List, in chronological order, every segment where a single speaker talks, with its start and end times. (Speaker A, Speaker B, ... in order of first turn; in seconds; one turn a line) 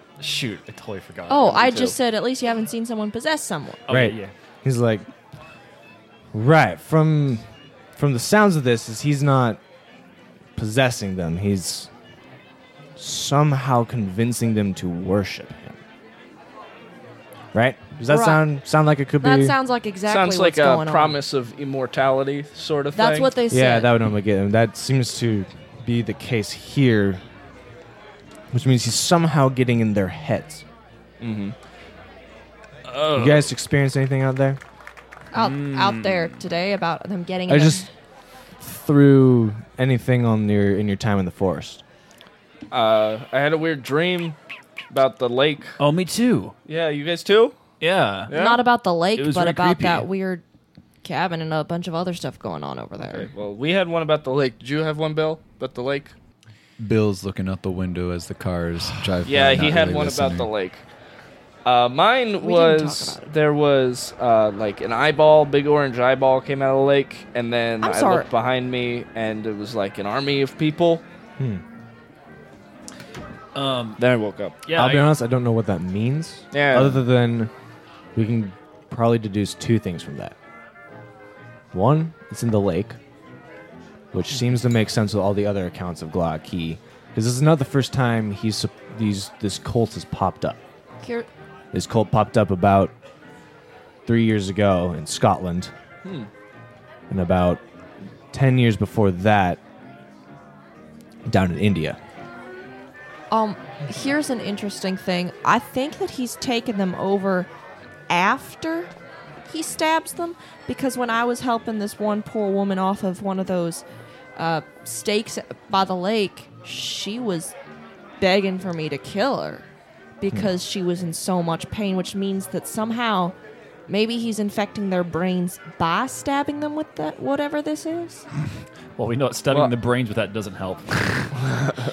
Speaker A: 0.2-1.6
Speaker B: 1.3-3.8
Speaker C: 1.5-1.9
Speaker A: 3.9-4.3
Speaker D: 3.9-5.0
Speaker D: 6.3-7.4
Speaker D: 8.0-9.6
Speaker D: 10.6-11.9
Speaker D: 13.0-15.8
Speaker D: 17.5-19.6
Speaker B: 18.1-18.4
Speaker B: 19.2-21.2
Speaker C: 20.1-23.3
Speaker B: 22.9-23.9
Speaker D: 23.5-27.2
Speaker D: 28.5-30.6
Speaker C: 31.2-31.5
Speaker C: 32.9-33.5
Speaker D: 33.1-34.6
Speaker B: 35.3-37.9
Speaker A: 35.3-36.3
Speaker D: 37.5-37.8
Speaker D: 38.6-41.8
Speaker C: 42.7-44.4
Speaker C: 44.9-45.8
Speaker A: 45.8-46.5
Speaker C: 46.6-47.5
Speaker A: 47.8-48.3
Speaker C: 48.3-48.6
Speaker B: 48.3-50.4
Speaker A: 49.1-50.0
Speaker B: 51.0-53.3
Speaker C: 53.0-56.1
Speaker E: 56.8-60.5
Speaker C: 59.2-60.8
Speaker C: 61.6-71.0
Speaker B: 62.4-63.2
Speaker B: 67.8-68.3
Speaker A: 73.5-74.0
Speaker C: 74.0-74.5
Speaker A: 74.6-75.1
Speaker D: 74.7-77.5
Speaker C: 76.5-77.0
Speaker D: 78.2-80.3
Speaker D: 81.7-83.0
Speaker D: 84.1-90.6
Speaker B: 91.0-91.3
Speaker D: 91.7-92.9
Speaker D: 94.0-95.7
Speaker C: 96.0-96.3
Speaker D: 97.1-97.6
Speaker D: 98.3-99.6
Speaker D: 101.2-102.0
Speaker B: 103.3-107.5
Speaker B: 108.1-108.9
Speaker B: 109.5-113.8
Speaker B: 114.3-117.5
Speaker B: 118.2-119.6
Speaker B: 120.2-123.3
Speaker B: 123.9-128.2
Speaker A: 129.0-131.4
Speaker C: 129.5-129.7